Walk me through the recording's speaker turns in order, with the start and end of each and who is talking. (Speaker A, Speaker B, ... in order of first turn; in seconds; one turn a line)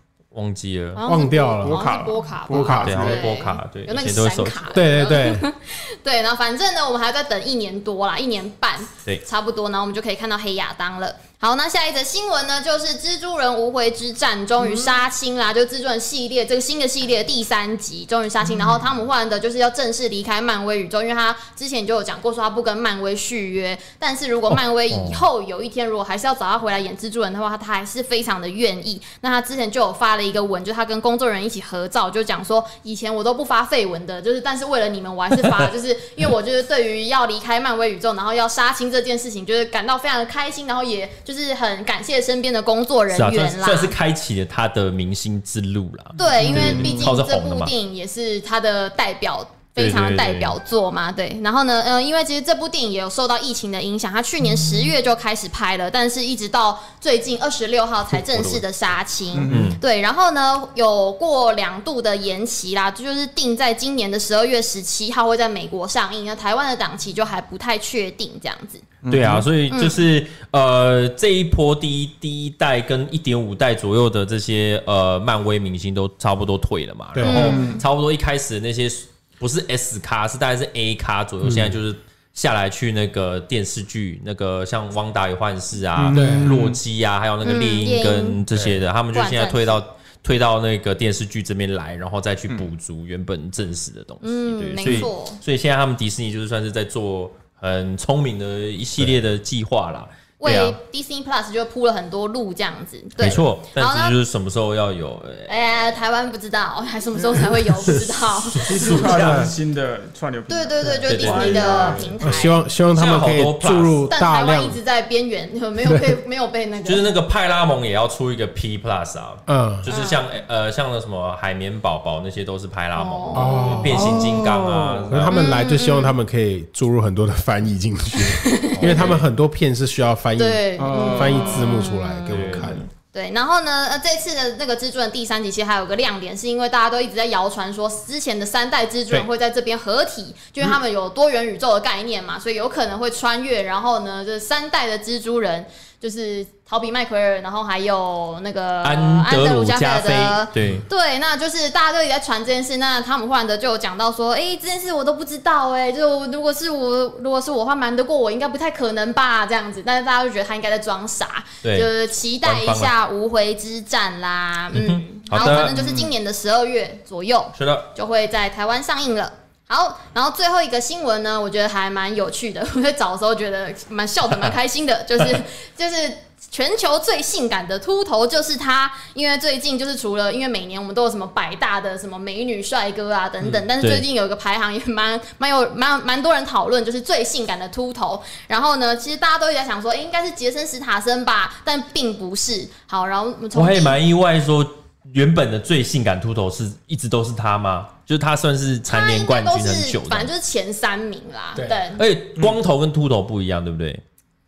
Speaker A: 0.3-1.0
Speaker B: 1.0-43.9
Speaker C: 1.0-1.8
Speaker D: 1.6-3.3
Speaker C: 2.5-3.0
Speaker A: 2.8-4.8
Speaker C: 4.7-5.4
Speaker A: 24.9-25.2
Speaker A: 35.4-35.7
Speaker A: 43.1-47.7
Speaker B: 46.1-68.8
Speaker D: 46.3-47.1
Speaker A: 49.8-50.5
Speaker A: 58.1-58.6
Speaker D: 59.3-59.8
Speaker A: 59.5-59.8
Speaker D: 69.0-69.5
Speaker A: 69.1-100.8
Speaker B: 69.7-70.0
Speaker C: 77.1-77.6
Speaker B: 77.2-77.8
Speaker D: 77.3-77.8
Speaker C: 81.4-81.8
Speaker D: 86.0-86.8
Speaker C: 86.1-86.6
Speaker B: 87.4-88.4
Speaker B: 89.1-89.8
Speaker B: 94.2-95.4
Speaker B: 100.4-104.1
Speaker A: 103.2-105.5
Speaker B: 105.5-108.9
Speaker A: 108.5-109.5
Speaker D: 108.7-112.2
Speaker C: 109.0-109.5
Speaker B: 110.5-112.6
Speaker A: 111.1-112.2
Speaker C: 112.2-114.8
Speaker A: 112.9-114.0
Speaker B: 114.1-117.0
Speaker C: 115.8-116.1
Speaker A: 116.8-125.5
Speaker C: 119.5-119.8
Speaker B: 119.9-120.2
Speaker B: 122.9-123.9
Speaker C: 123.3-124.4
Speaker D: 123.8-125.1
Speaker C: 125.1-132.8
Speaker B: 125.3-126.1
Speaker B: 128.3-129.1
Speaker A: 128.8-129.2
Speaker B: 130.4-194.0
Speaker D: 130.8-131.8
Speaker A: 132.3-132.8
Speaker A: 148.8-150.8
Speaker A: 161.6-161.9
Speaker A: 162.4-162.9
Speaker A: 164.7-165.8
Speaker D: 165.4-166.1
Speaker A: 167.5-167.9
Speaker A: 193.5-200.3
Speaker B: 198.9-202.0
Speaker C: 201.6-201.8
Speaker A: 202.0-204.0